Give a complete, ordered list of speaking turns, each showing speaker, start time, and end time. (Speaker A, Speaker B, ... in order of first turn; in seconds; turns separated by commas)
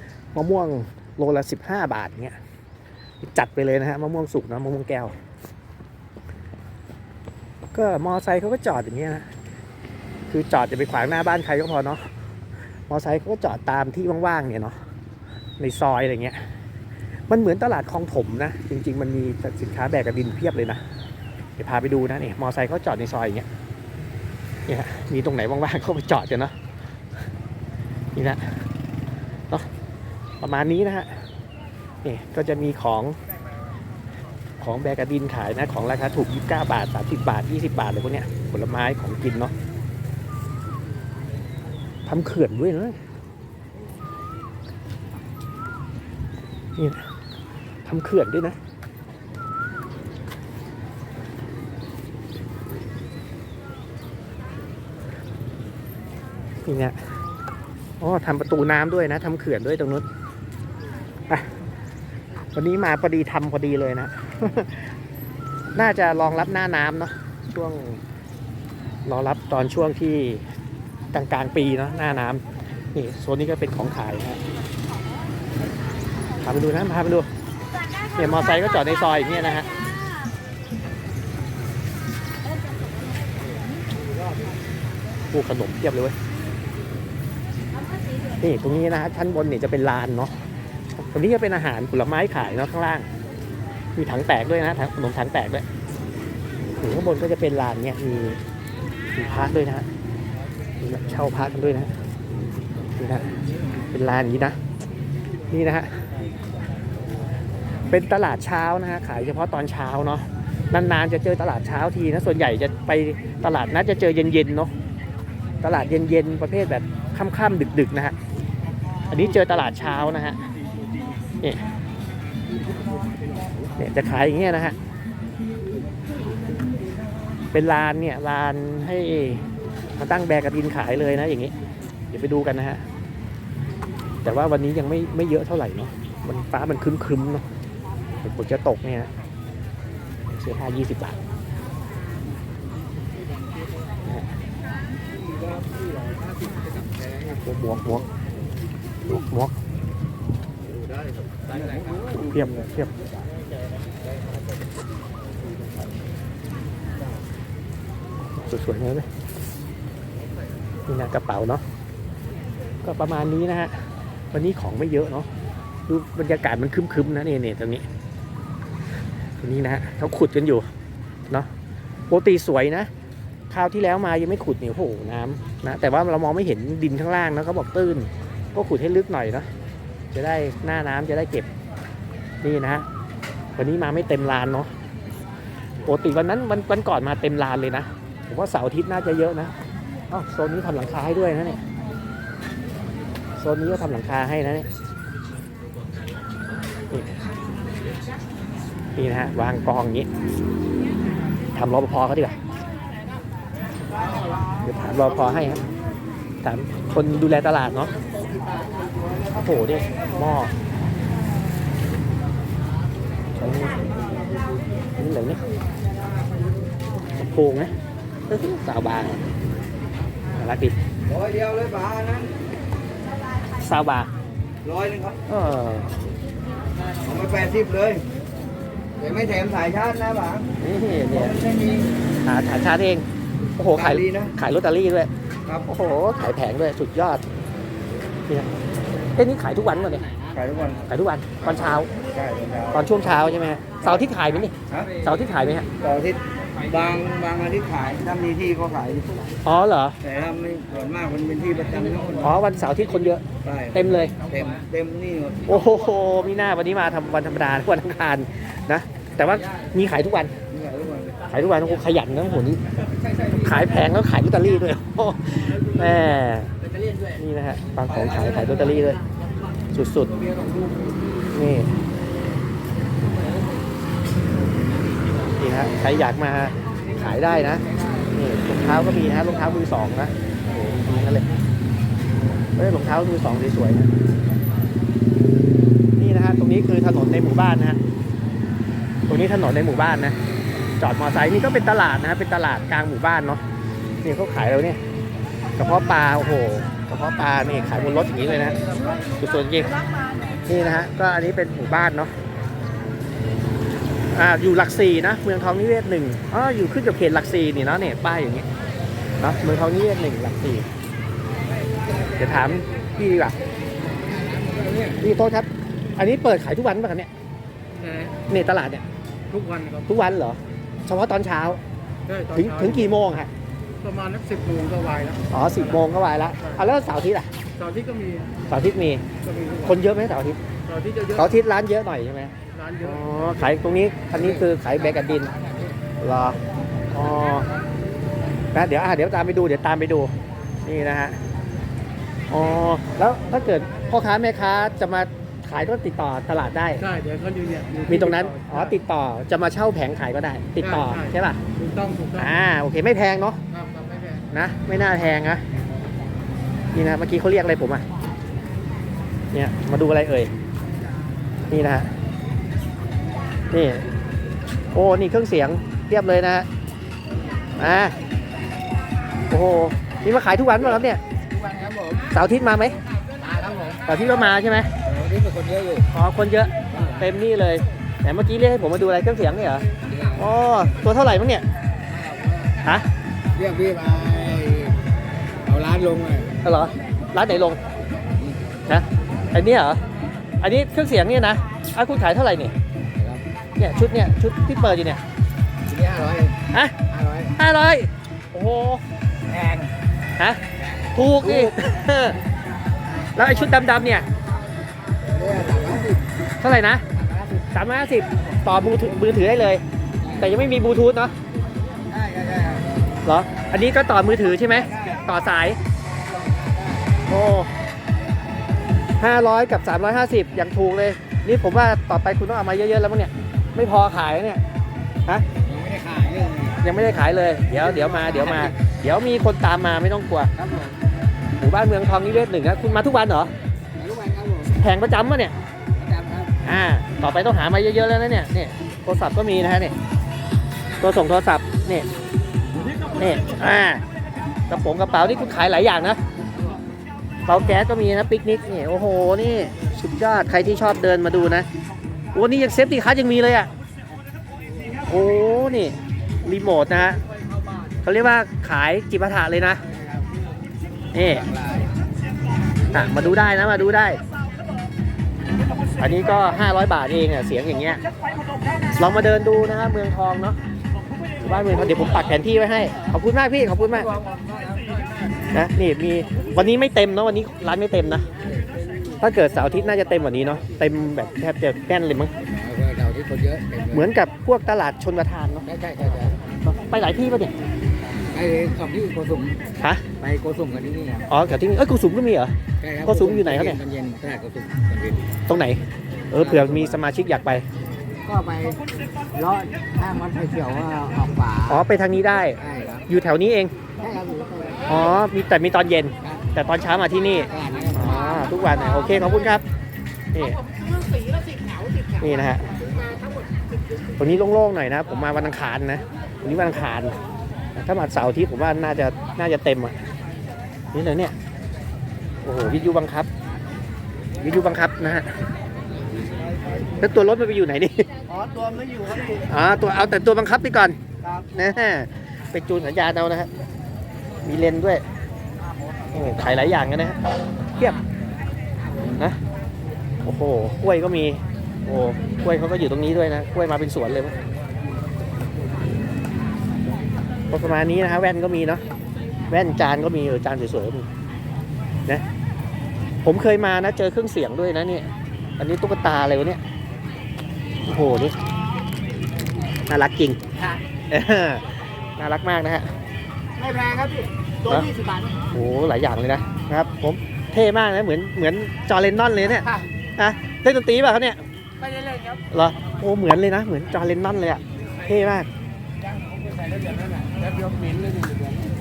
Speaker A: 0.3-2.4, Speaker A: 3.2-5.1, Speaker A: 7.7-9.2, Speaker A: 10.3-12.0, Speaker A: 12.9-14.8, Speaker A: 15.6-16.4, Speaker A: 17.3-20.8, Speaker A: 21.6-23.4, Speaker A: 24.7-26.5, Speaker A: 28.1-28.5, Speaker A: 30.4-31.1, Speaker A: 32.0-33.1, Speaker A: 34.6-39.5, Speaker A: 42.0-43.0, Speaker A: 46.8-47.0, Speaker A: 47.8-48.6, Speaker A: 56.6-57.0, Speaker A: 58.0-60.0, Speaker A: 62.5-64.9, Speaker A: 65.7-68.0, Speaker A: 69.0-70.4, Speaker A: 71.1-72.4, Speaker A: 72.9-74.4, Speaker A: 76.4-77.3, Speaker A: 78.1-79.7, Speaker A: 85.3-86.2, Speaker A: 88.4-90.3, Speaker A: 91.0-93.1, Speaker A: 94.0-95.6, Speaker A: 96.8-98.4, Speaker A: 99.1-99.9, Speaker A: 100.8-101.9, Speaker A: 103.0-103.2, Speaker A: 103.9-104.6, Speaker A: 105.5-105.9, Speaker A: 107.9-114.7, Speaker A: 115.6-118.2, Speaker A: 119.1-120.4, Speaker A: 123.8-124.8, Speaker A: 127.5-131.5, Speaker A: 132.1-132.8, Speaker A: 134.2-137.4, Speaker A: 138.2-139.1, Speaker A: 140.3-141.2, Speaker A: 144.0-144.3, Speaker B: 145.1-147.3, Speaker A: 147.3-148.0, Speaker A: 149.0-149.5, Speaker B: 150.7-152.2, Speaker A: 152.1-152.9, Speaker A: 158.3-159.1, Speaker A: 160.9-161.6, Speaker A: 162.8-163.7, Speaker A: 164.3-165.3, Speaker A: 165.9-167.8, Speaker A: 169.4-170.7, Speaker A: 172.1-172.9, Speaker A: 173.5-179.5, Speaker A: 180.1-181.5, Speaker A: 182.4-182.8, Speaker A: 183.6-184.7, Speaker A: 185.8-189.5, Speaker A: 190.1-191.6, Speaker A: 193.4-194.7, Speaker A: 196.9-197.2, Speaker A: 198.9-200.1, Speaker A: 201.5-202.4, Speaker A: 204.6-205.6, Speaker A: 206.4-208.0, Speaker A: 209.3-210.5, Speaker A: 213.4-213.9, Speaker A: 214.9-215.4, Speaker A: 217.1-217.7, Speaker A: 218.3-219.2, Speaker A: 220.3-220.8, Speaker B: 221.0-222.4, Speaker A: 223.5-224.1, Speaker B: 224.6-225.2, Speaker A: 225.3-226.0, Speaker B: 227.0-228.0, Speaker B: 229.0-230.5, Speaker A: 230.6-231.4, Speaker B: 231.1-231.9, Speaker A: 232.2-233.1, Speaker A: 233.6-235.1, Speaker B: 233.7-234.3, Speaker A: 235.7-237.2, Speaker A: 239.1-240.2, Speaker B: 240.3-240.9, Speaker A: 240.9-241.9, Speaker B: 241.5-243.0, Speaker A: 242.7-245.7, Speaker B: 244.7-245.0, Speaker B: 245.8-249.3, Speaker A: 249.4-250.0, Speaker B: 250.0-252.4, Speaker A: 252.2-254.2, Speaker B: 253.4-255.6, Speaker A: 255.5-260.3, Speaker B: 260.5-261.3, Speaker A: 261.3-262.6, Speaker A: 263.3-266.6, Speaker A: 267.1-269.0, Speaker A: 269.7-270.2, Speaker B: 270.2-270.9, Speaker A: 271.3-271.7, Speaker A: 275.4-281.3, Speaker B: 277.7-278.0, Speaker A: 282.5-283.9, Speaker A: 286.0-287.8, Speaker A: 289.1-290.1, Speaker A: 290.8-293.4, Speaker A: 294.0-294.8, Speaker A: 295.6-298.6, Speaker A: 299.1-299.8, Speaker A: 300.4-302.1, Speaker A: 304.1-308.5, Speaker A: 309.2-310.7, Speaker A: 312.1-313.4, Speaker B: 313.8-315.0, Speaker A: 315.0-317.1, Speaker C: 317.8-318.2, Speaker A: 318.3-318.8, Speaker C: 319.3-319.8, Speaker A: 319.9-321.6, Speaker C: 322.1-322.9, Speaker A: 322.3-323.3, Speaker C: 323.8-325.2, Speaker A: 325.3-327.3, Speaker C: 327.6-328.3, Speaker A: 328.5-329.0, Speaker A: 329.6-330.4, Speaker C: 330.7-331.2, Speaker A: 331.1-335.3, Speaker C: 332.5-333.4, Speaker B: 334.1-335.8, Speaker A: 336.0-336.4, Speaker A: 336.9-337.5, Speaker A: 338.5-341.2, Speaker A: 342.3-346.9, Speaker C: 346.9-348.6, Speaker A: 347.9-351.4, Speaker C: 350.6-352.3, Speaker A: 352.1-353.4, Speaker C: 353.5-354.2, Speaker A: 354.3-355.4, Speaker A: 356.7-357.8, Speaker A: 359.3-360.3, Speaker A: 361.5-361.9, Speaker A: 363.5-363.9, Speaker A: 364.7-366.5, Speaker A: 367.6-368.0, Speaker A: 369.3-371.0, Speaker B: 371.3-372.1, Speaker A: 372.1-372.8, Speaker B: 373.2-373.8, Speaker A: 373.8-374.7, Speaker B: 374.8-375.9, Speaker A: 375.9-381.5, Speaker B: 376.7-377.1, Speaker B: 379.9-380.3, Speaker B: 381.9-382.6, Speaker B: 383.3-384.8, Speaker B: 385.4-386.3, Speaker A: 386.4-387.6, Speaker B: 388.0-388.4, Speaker A: 388.6-389.8, Speaker A: 390.4-392.5, Speaker B: 392.9-393.2, Speaker A: 393.6-395.0, Speaker B: 395.7-397.3, Speaker A: 397.4-398.8, Speaker B: 399.3-399.7, Speaker A: 400.9-402.2, Speaker B: 401.2-401.6, Speaker A: 403.1-404.1, Speaker B: 405.1-406.0, Speaker A: 406.4-406.8, Speaker B: 406.9-407.4, Speaker A: 407.5-409.6, Speaker B: 410.0-410.5, Speaker A: 410.2-411.1, Speaker B: 411.9-412.7, Speaker A: 413.0-415.6, Speaker B: 416.0-417.0, Speaker A: 417.1-417.5, Speaker A: 419.0-424.4, Speaker B: 425.4-426.6, Speaker A: 426.6-430.3, Speaker B: 427.6-428.5, Speaker B: 430.4-430.8, Speaker A: 431.4-433.3, Speaker B: 433.8-434.6, Speaker A: 434.6-435.4, Speaker B: 435.7-436.4, Speaker A: 436.4-439.8, Speaker A: 440.8-441.9, Speaker B: 442.6-442.9, Speaker A: 443.0-443.8, Speaker A: 444.5-446.0, Speaker A: 447.2-451.5, Speaker A: 452.1-453.5, Speaker A: 454.9-457.0, Speaker A: 457.8-459.6, Speaker A: 460.9-461.3, Speaker B: 461.1-461.7, Speaker A: 462.7-464.0, Speaker A: 465.8-467.8, Speaker A: 468.7-470.4, Speaker A: 471.2-473.9, Speaker B: 473.9-474.9, Speaker A: 475.3-478.1, Speaker B: 478.2-478.6, Speaker A: 479.0-482.1, Speaker B: 482.2-483.9, Speaker A: 483.7-485.5, Speaker B: 485.4-486.2, Speaker A: 486.4-487.3, Speaker B: 488.1-489.4, Speaker B: 490.0-491.1, Speaker A: 491.1-493.6, Speaker B: 492.6-495.1, Speaker A: 495.3-497.5, Speaker B: 496.1-496.8, Speaker B: 498.0-501.7, Speaker A: 501.5-503.5, Speaker B: 502.2-502.9, Speaker B: 503.8-504.9, Speaker A: 504.6-509.4, Speaker B: 507.3-508.2, Speaker A: 510.1-510.4, Speaker C: 510.6-511.8, Speaker A: 511.9-512.5, Speaker B: 512.6-513.2, Speaker A: 514.0-517.0, Speaker A: 517.5-519.8, Speaker A: 520.7-521.1, Speaker A: 522.2-523.1, Speaker A: 524.2-525.1, Speaker B: 526.1-526.7, Speaker A: 526.8-527.9, Speaker B: 528.1-529.3, Speaker A: 529.1-533.3, Speaker A: 534.2-534.8, Speaker A: 535.9-537.0, Speaker A: 537.5-537.8, Speaker A: 538.9-539.2, Speaker A: 540.0-544.2, Speaker A: 547.3-548.6, Speaker A: 549.3-550.9, Speaker A: 553.0-556.4, Speaker A: 557.6-558.2, Speaker A: 559.7-560.2, Speaker A: 560.9-562.7, Speaker B: 563.4-564.1, Speaker A: 564.4-564.7, Speaker B: 564.7-565.2, Speaker A: 565.3-571.2, Speaker A: 572.3-575.3, Speaker B: 576.8-577.8